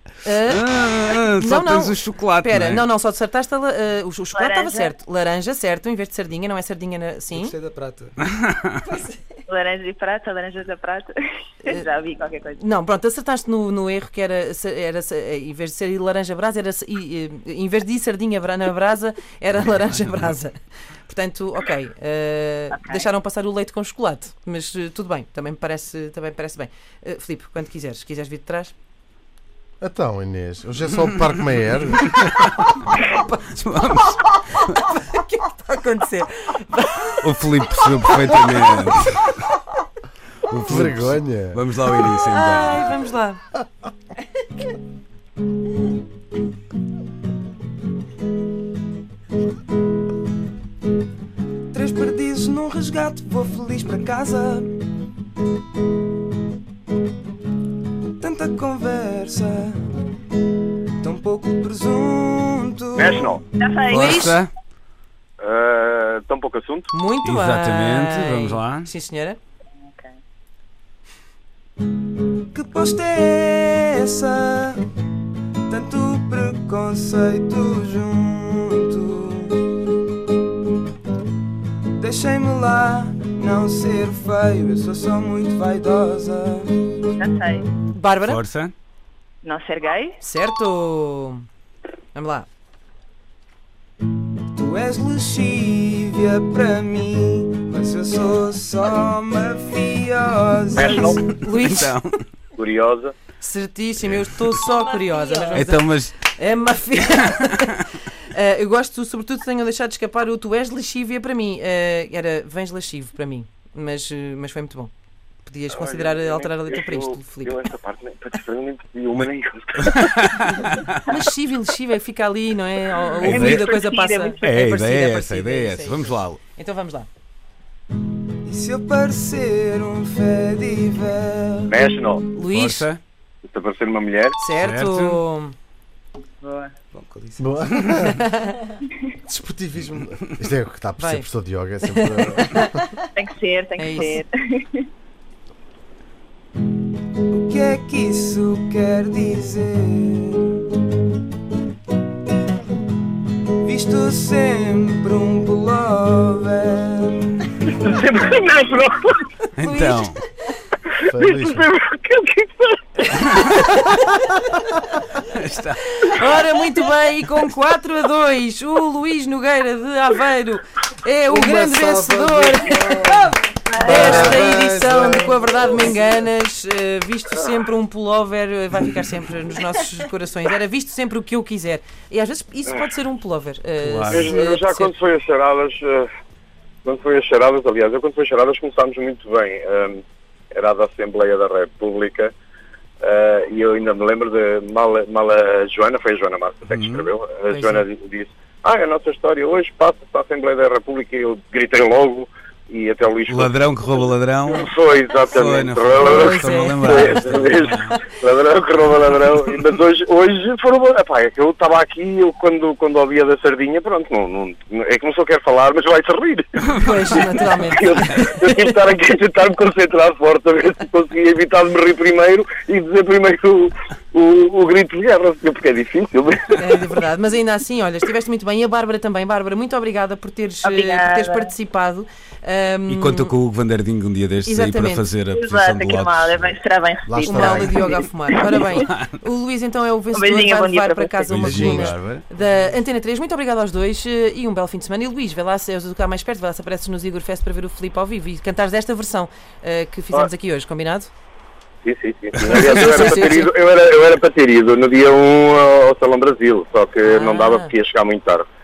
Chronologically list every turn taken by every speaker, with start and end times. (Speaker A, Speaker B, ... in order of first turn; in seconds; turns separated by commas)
Speaker A: 0.2-0.7, Speaker B: 0.4-2.8, Speaker A: 1.4-7.5, Speaker C: 4.3-4.9, Speaker D: 7.3-8.2, Speaker B: 8.3-8.7, Speaker A: 8.8-9.2, Speaker C: 9.5-11.1, Speaker C: 11.6-12.6, Speaker A: 12.6-20.5, Speaker A: 21.1-28.7, Speaker C: 22.7-23.1, Speaker E: 29.8-32.6, Speaker B: 32.2-32.8, Speaker A: 32.9-33.4, Speaker B: 33.3-34.8, Speaker A: 34.5-38.6, Speaker B: 37.2-39.5, Speaker B: 40.5-42.9, Speaker E: 40.6-41.6, Speaker A: 42.2-43.4, Speaker D: 51.7-54.7, Speaker D: 58.2-59.8, Speaker D: 61.0-63.4, Speaker F: 62.9-63.4, Speaker C: 63.6-64.3, Speaker B: 63.8-64.5, Speaker A: 63.9-64.4, Speaker F: 65.4-66.9, Speaker A: 66.9-69.4, Speaker B: 67.2-68.9, Speaker C: 69.8-70.1, Speaker D: 72.5-74.8, Speaker D: 75.7-79.6, Speaker D: 82.0-86.7, Speaker C: 87.2-87.7, Speaker A: 87.9-88.4, Speaker B: 88.2-88.7, Speaker C: 89.4-90.2, Speaker A: 90.2-91.5, Speaker A: 92.1-92.5, Speaker D: 94.5-101.2, Speaker F: 100.7-101.2, Speaker A: 101.2-102.0, Speaker B: 101.4-102.2, Speaker F: 102.5-103.1, Speaker A: 103.4-114.9, Speaker B: 105.5-106.2, Speaker A: 115.4-117.6, Speaker F: 115.7-120.0, Speaker B: 119.8-121.0, Speaker A: 121.0-127.1, Speaker B: 123.2-123.7, Speaker C: 123.2-124.6, Speaker B: 124.4-126.4, Speaker D: 128.4-131.8, Speaker F: 131.7-132.2, Speaker A: 132.3-132.9, Speaker B: 132.5-133.0, Speaker F: 133.4-134.3, Speaker A: 134.4-135.5, Speaker B: 134.6-135.2, Speaker C: 136.4-136.7, Speaker D: 136.9-137.5, Speaker E: 137.4-138.2, Speaker A: 138.1-138.8, Speaker E: 139.1-142.8, Speaker A: 141.0-141.3, Speaker A: 141.8-143.1, Speaker C: 143.1-144.8, Speaker A: 143.8-144.2, Speaker D: 147.3-150.6, Speaker D: 153.6-157.5, Speaker F: 157.7-159.2, Speaker B: 159.6-160.2, Speaker A: 159.6-160.2, Speaker E: 161.1-161.7, Speaker F: 161.1-163.4, Speaker B: 163.2-163.5, Speaker A: 163.6-164.1, Speaker B: 165.2-166.2, Speaker A: 165.9-184.9, Speaker E: 171.3-175.9, Speaker C: 173.7-174.4, Speaker B: 183.8-184.3, Speaker F: 184.1-186.1, Speaker F: 186.8-192.3, Speaker F: 193.0-226.9, Speaker B: 196.7-197.1, Speaker A: 197.5-197.8, Speaker B: 203.2-204.7, Speaker B: 205.3-208.0, Speaker A: 206.0-207.1, Speaker A: 216.7-218.7, Speaker A: 226.6-233.3, Speaker C: 230.6-231.5, Speaker B: 232.9-236.6, Speaker A: 234.4-235.1, Speaker C: 235.3-238.7, Speaker E: 237.1-237.9, Speaker A: 237.2-251.1, Speaker B: 238.7-239.1, Speaker C: 240.1-241.5, Speaker B: 241.3-242.2, Speaker E: 241.3-241.9, Speaker F: 251.8-258.5, Speaker A: 252.4-253.5, Speaker A: 257.0-257.7